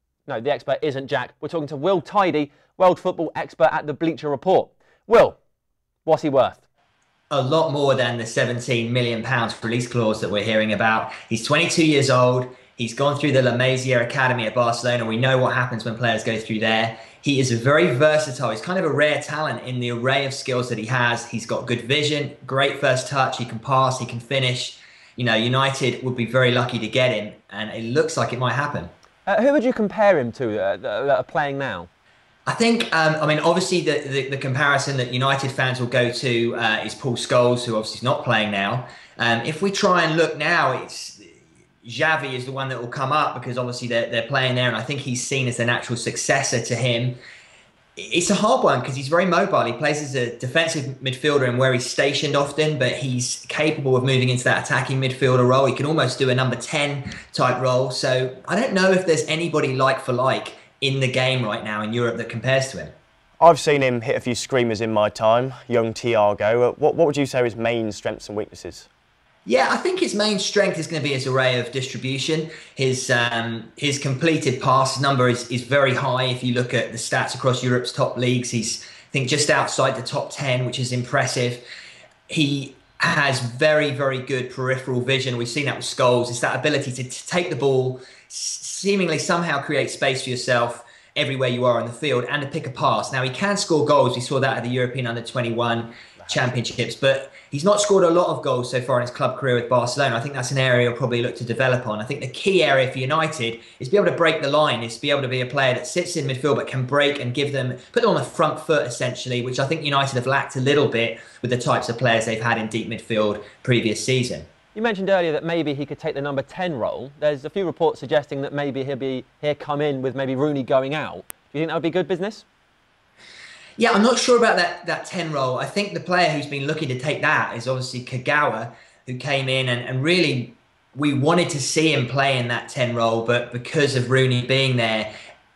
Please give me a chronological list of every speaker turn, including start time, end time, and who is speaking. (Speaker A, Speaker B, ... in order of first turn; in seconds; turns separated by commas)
Speaker A: 0.3-5.4, Speaker A: 6.0-6.6, Speaker B: 7.3-28.9, Speaker A: 29.3-31.9, Speaker B: 32.5-41.3, Speaker B: 41.8-47.2, Speaker B: 48.0-62.9, Speaker C: 63.4-68.9, Speaker B: 69.5-81.6, Speaker B: 82.3-114.5, Speaker A: 114.8-122.5, Speaker B: 123.8-135.1